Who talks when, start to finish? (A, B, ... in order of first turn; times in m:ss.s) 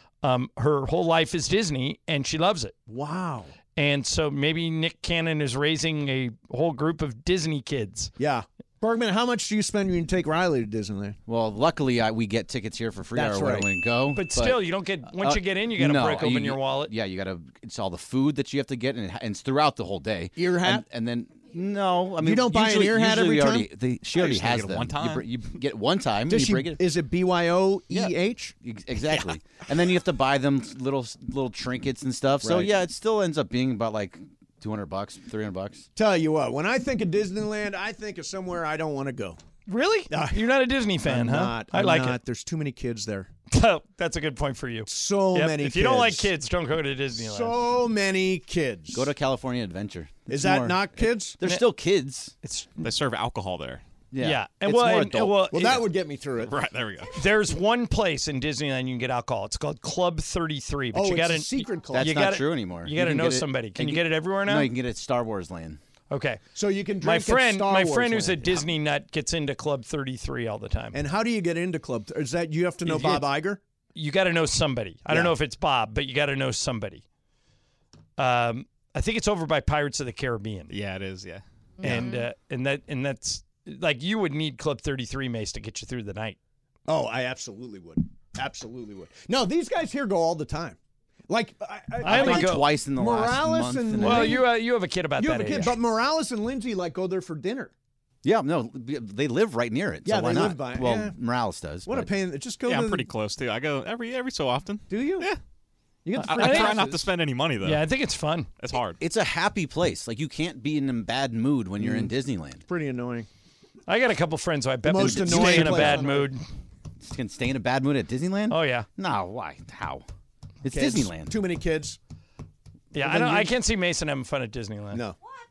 0:00.2-0:02.8 A
0:02.9-0:03.5 B
0:03.8-0:08.1 A
0:08.2-0:11.2 B
0:11.3-0:26.8 C
0:13.1-0:13.7 B
0:14.1-0:16.9 A
0:20.4-0:20.9 B
0:22.2-0:23.7 B
0:24.1-0:25.3 D
0:26.3-0:28.6 B
0:27.9-0:35.9 C
0:32.4-0:32.8 B
0:36.0-0:39.4 B
0:39.7-0:42.2 A
0:40.1-0:40.5 B
0:41.0-0:43.3 B
0:43.5-0:47.6 A
0:44.9-0:46.3 B
0:47.2-0:49.1 B
0:48.9-0:52.3 C
0:50.3-0:51.4 B
0:52.4-0:52.9 A
0:52.8-0:53.8 D
0:54.1-0:55.4 C
0:54.2-0:55.8 A
0:55.5-0:56.5 B
0:56.4-0:57.2 D
0:57.1-1:04.7 A
1:00.9-1:02.3 B
1:01.9-1:05.8 C
1:06.1-1:06.4 A
1:06.6-1:08.7 B
1:07.0-1:11.0 A
1:10.9-1:13.6 B
1:12.8-1:13.3 A
1:14.0-1:17.0 A
1:15.1-1:15.3 B
1:18.2-1:20.7 A
1:20.7-1:21.4 D
1:21.8-1:26.4 A
1:21.8-1:22.1 B
1:26.9-1:30.8 B
1:31.3-1:34.5 B
1:32.0-1:32.7 A
1:32.0-1:34.5 C
1:34.0-1:35.7 A
1:35.2-1:37.7 B
1:38.2-1:42.1 C
1:40.0-1:41.2 B
1:41.9-1:43.1 B
1:42.7-1:45.4 D
1:44.9-1:45.3 B
1:46.0-1:47.1 B
1:46.2-1:46.8 A
1:46.2-1:47.8 D
1:47.6-1:48.5 A
1:48.6-1:49.0 D
1:49.0-1:52.6 C
1:51.8-1:52.1 B
1:52.7-1:53.3 B
1:53.9-1:56.4 A
1:54.9-1:56.3 B
1:55.1-1:56.0 C
1:57.0-2:00.0 C
1:58.5-1:58.9 A
2:00.6-2:01.4 C
2:00.7-2:02.0 B
2:02.9-2:05.0 A
2:03.0-2:03.5 B